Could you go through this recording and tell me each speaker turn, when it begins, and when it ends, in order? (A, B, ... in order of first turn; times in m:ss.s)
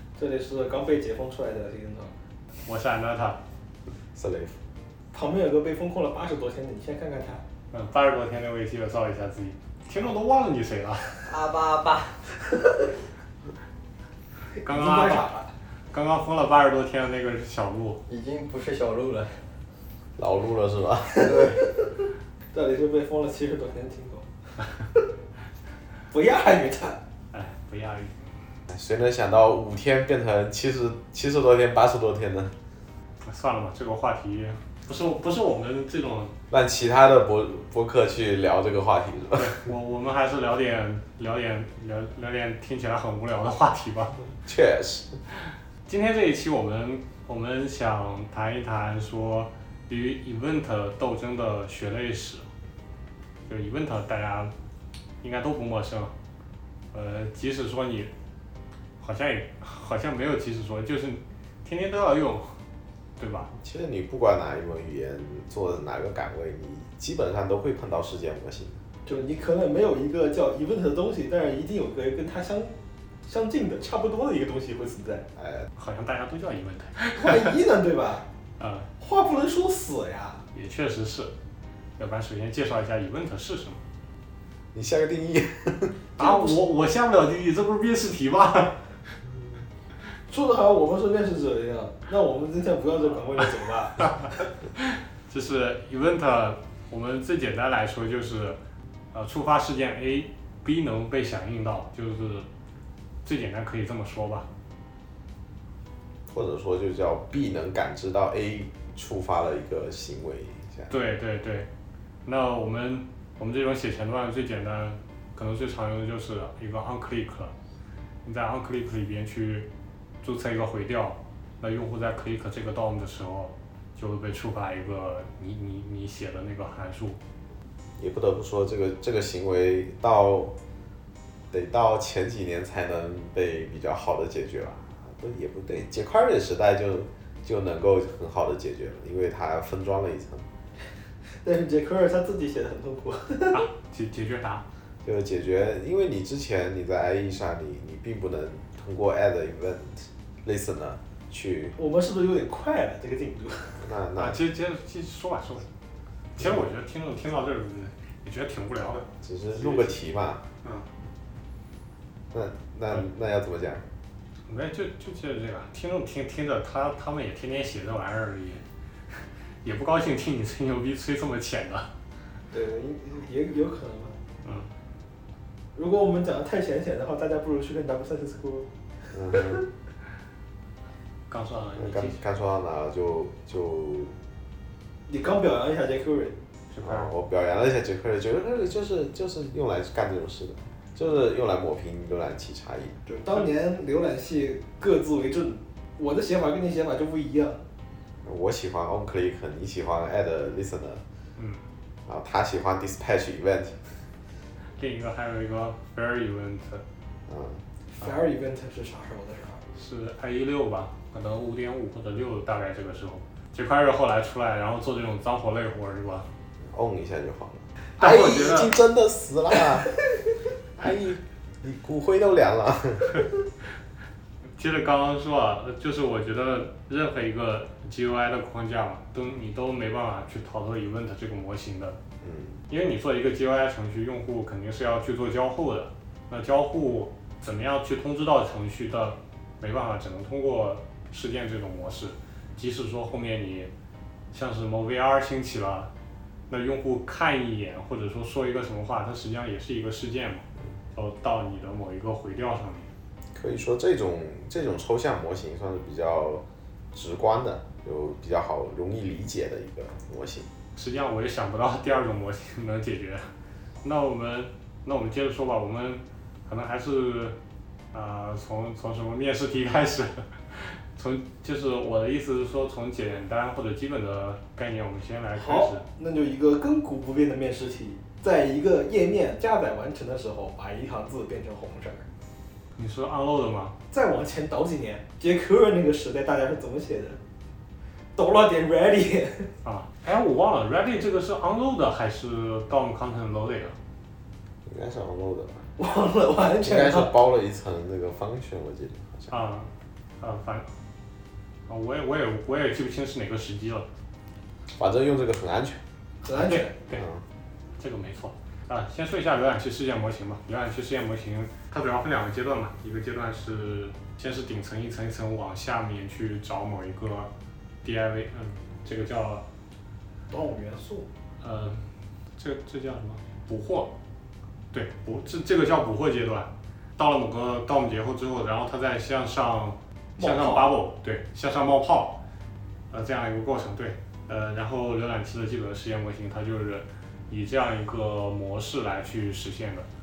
0:00.2-0:02.1 A
0:02.6-0:03.4 B
0:04.2-0:04.6 C
0:05.1-0:07.4 A
0:07.7-0:11.1 B
0:11.3-0:12.2 D
0:14.6-0:15.3 B
0:14.6-0:15.5 A
0:15.9-0:18.0 B
0:18.1-0:19.4 D
0:20.2-0:21.5 C
0:21.2-0:21.9 A
0:21.2-0:21.6 D
0:22.5-0:24.3 A
0:26.1-0:27.0 A
0:27.3-0:28.2 B
0:28.7-0:32.5 C
0:33.2-0:36.3 B
0:36.5-0:39.6 C
0:39.3-0:44.2 B
0:44.4-0:45.2 C
0:45.9-0:52.5 B
0:53.5-0:54.5 B
0:55.2-0:56.1 B
0:56.9-0:58.1 B
0:59.0-1:02.6 B
1:03.2-1:03.5 B
1:03.5-1:08.8 C
1:09.1-1:12.7 A
1:13.2-1:15.2 A
1:15.4-1:15.7 C
1:15.8-1:17.6 B
1:17.2-1:18.3 A
1:18.6-1:18.9 B
1:19.0-1:20.4 A
1:20.5-1:21.3 B
1:22.0-1:23.8 B
1:24.7-1:26.0 C
1:26.2-1:28.8 B
1:30.3-1:34.3 A
1:34.8-1:38.6 B
1:39.1-1:42.5 B
1:43.2-1:44.5 B
1:46.3-1:50.9 C
1:50.9-1:51.7 B
1:52.2-1:57.5 B
1:58.2-1:59.7 B
2:00.2-2:07.2 B
2:08.0-2:10.5 C
2:11.5-2:20.5 C
2:21.4-2:23.6 A
2:23.5-2:24.6 B
2:25.0-2:31.8 C
2:31.8-2:33.8 A
2:33.8-2:34.4 C
2:34.2-2:35.6 B
2:36.4-2:39.1 B
2:36.4-2:36.6 C
2:39.2-2:40.4 C
2:40.6-2:40.9 B
2:42.3-2:43.8 C
2:44.5-2:48.6 B
2:49.6-2:51.9 B
2:52.5-2:54.2 A
2:54.4-2:54.7 B
2:55.8-2:58.7 A
2:59.1-2:59.6 C
2:59.4-2:59.6 A
3:01.3-3:02.2 B
3:01.8-3:04.2 C
3:05.1-3:06.4 A
3:06.7-3:07.1 B
3:06.8-3:13.0 C
3:13.1-3:17.6 A
3:18.2-3:21.0 C
3:21.4-3:21.6 B
3:22.1-3:23.9 C
3:24.8-3:26.8 B
3:27.3-3:27.6 C
3:27.9-3:29.7 A
3:29.8-3:36.3 B
3:36.7-3:40.0 C
3:38.0-3:38.8 B
3:40.8-3:43.3 C
3:44.6-3:52.0 B
3:52.2-3:52.6 C
3:52.7-4:03.7 B
4:04.3-4:05.9 B
4:06.5-4:12.9 B
4:13.3-4:20.5 C
4:20.8-4:23.3 B
4:23.8-4:27.4 B
4:27.9-4:35.8 B
4:35.4-4:42.1 A
4:42.8-4:43.8 B
4:43.9-4:47.2 A
4:48.2-4:49.5 A
4:49.6-4:53.8 B
4:54.7-4:55.7 C
4:55.8-4:57.1 A
4:56.6-4:59.3 C
4:59.3-5:00.7 B
5:01.7-5:03.9 B
5:04.8-5:05.8 C
5:06.2-5:06.7 A
5:06.3-5:07.0 B
5:06.9-5:07.2 C
5:07.8-5:17.3 B
5:17.8-5:19.4 B
5:20.3-5:21.1 A
5:21.4-5:21.8 B
5:22.4-5:23.9 B
5:24.7-5:32.2 B
5:30.2-5:30.7 A
5:32.9-5:39.9 B